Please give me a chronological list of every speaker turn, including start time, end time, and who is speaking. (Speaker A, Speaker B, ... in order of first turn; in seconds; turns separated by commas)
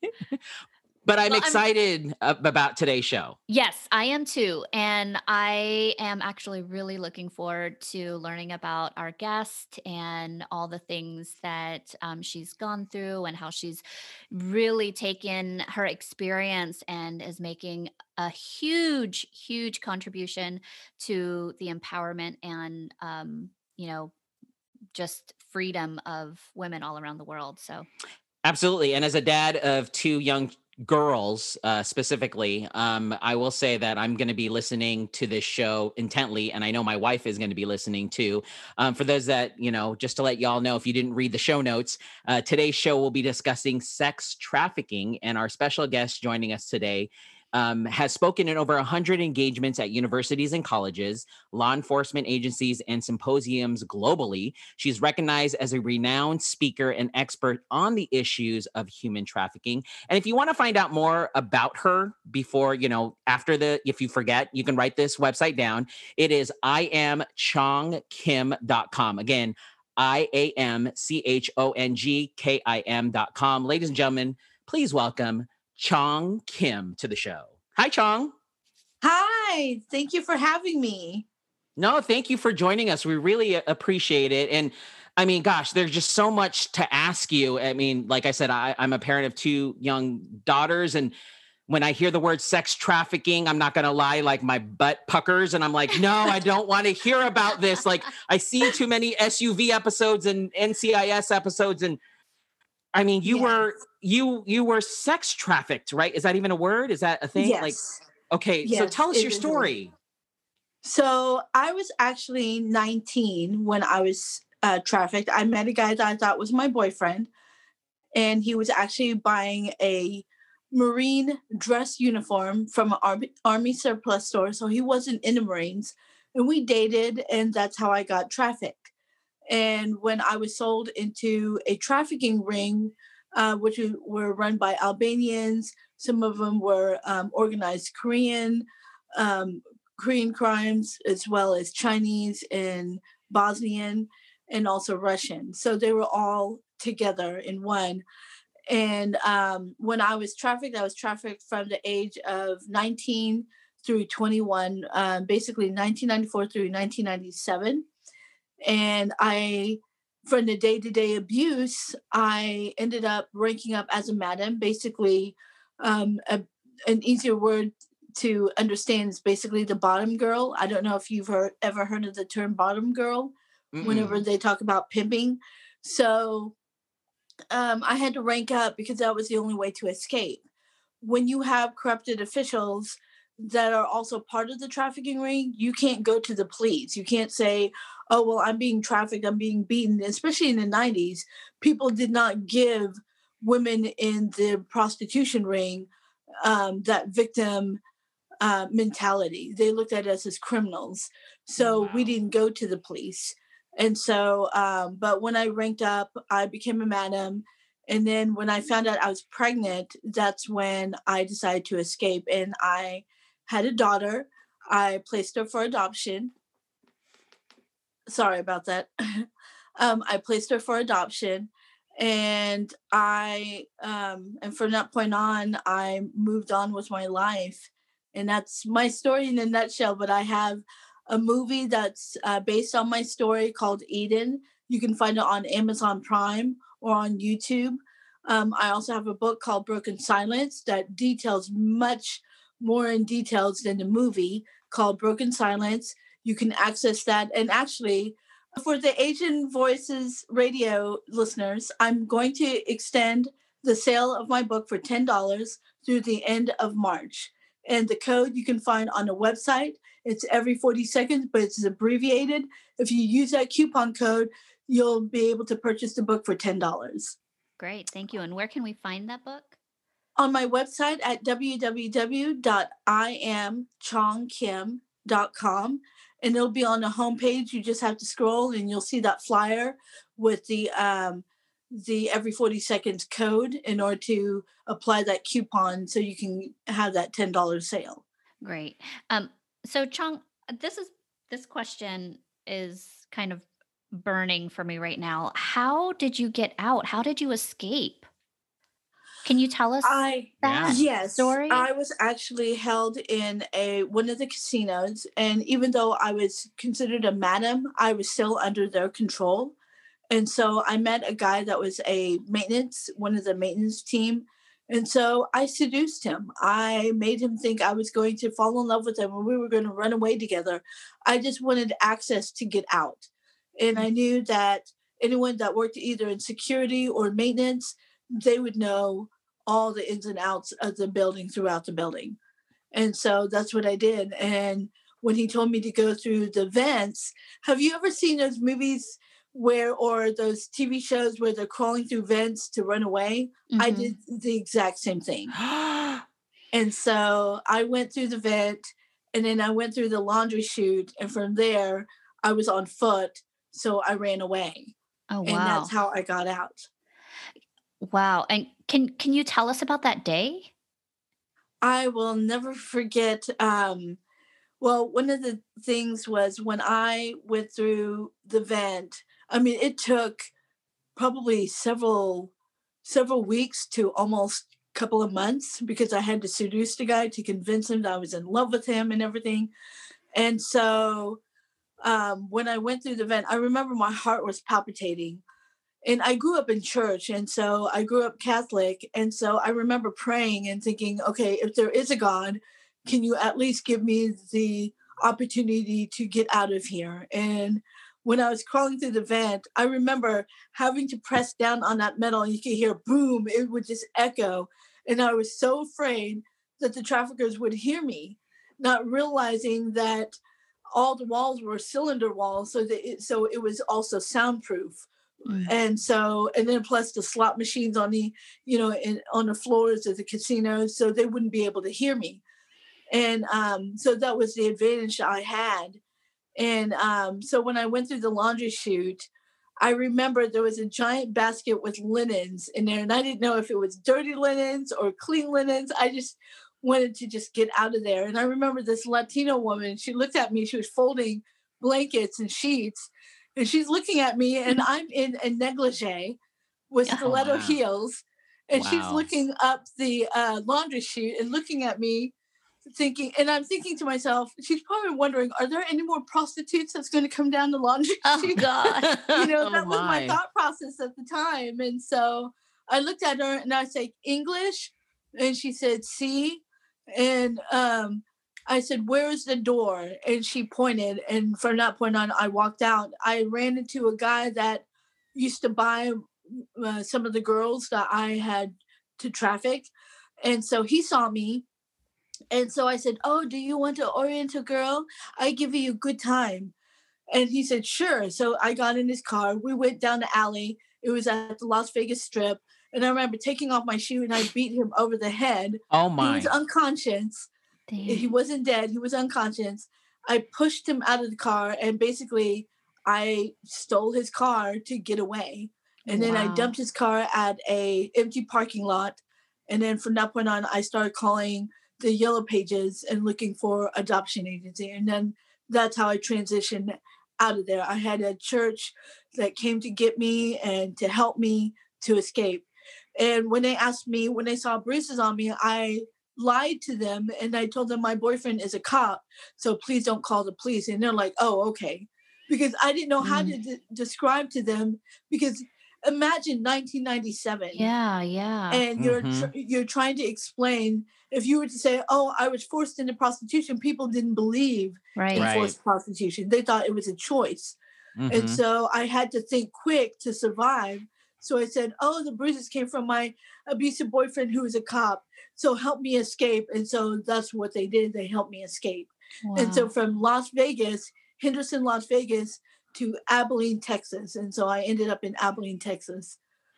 Speaker A: 1.1-3.4, Speaker B: 1.3-1.6, Speaker B: 3.5-24.1, Speaker B: 24.9-27.9, Speaker A: 28.4-78.3, Speaker C: 79.0-81.3, Speaker A: 81.8-91.1, Speaker A: 91.7-102.0, Speaker A: 102.9-107.8, Speaker C: 103.2-103.6, Speaker C: 107.4-108.0, Speaker A: 108.3-109.9, Speaker C: 108.6-109.7, Speaker C: 110.8-117.3, Speaker C: 118.2-128.9, Speaker C: 129.5-148.0, Speaker C: 148.7-157.9, Speaker C: 158.7-176.6, Speaker A: 173.7-174.2, Speaker C: 177.5-180.4, Speaker C: 181.0-195.9, Speaker C: 196.4-197.8, Speaker C: 198.4-216.3, Speaker A: 201.6-202.1, Speaker C: 218.1-219.3, Speaker C: 219.8-267.2, Speaker B: 267.6-269.6, Speaker C: 270.2-288.0, Speaker B: 288.4-298.1, Speaker B: 299.2-301.7, Speaker C: 299.8-309.6, Speaker A: 300.4-300.8, Speaker C: 310.1-323.1, Speaker C: 323.6-332.2, Speaker C: 332.7-345.3, Speaker B: 343.5-343.9, Speaker A: 345.4-346.0, Speaker C: 346.5-354.7, Speaker B: 355.1-355.7, Speaker C: 355.2-356.7, Speaker B: 357.8-360.5, Speaker C: 361.6-364.0, Speaker C: 364.6-370.3, Speaker C: 371.0-372.3, Speaker C: 372.8-379.5, Speaker C: 380.1-381.2, Speaker C: 381.8-385.2, Speaker C: 385.9-410.2, Speaker C: 410.7-414.9, Speaker B: 415.3-415.5, Speaker C: 415.4-422.2, Speaker C: 422.9-425.8, Speaker C: 426.4-429.1, Speaker C: 429.6-446.2, Speaker C: 446.7-452.1, Speaker A: 447.1-447.6, Speaker A: 448.5-449.1, Speaker C: 452.7-458.4, Speaker B: 458.0-458.9, Speaker A: 458.8-460.2, Speaker C: 459.1-479.7, Speaker C: 480.2-481.4, Speaker C: 482.3-486.5, Speaker C: 487.1-497.3, Speaker A: 495.7-496.3, Speaker B: 497.7-498.1, Speaker C: 497.9-537.7, Speaker B: 505.9-506.6, Speaker B: 533.0-533.4, Speaker B: 537.5-538.6, Speaker C: 538.5-547.6, Speaker A: 538.8-539.3, Speaker B: 545.0-545.3, Speaker A: 545.1-545.5, Speaker A: 548.0-548.4, Speaker C: 548.1-566.2, Speaker B: 559.2-559.7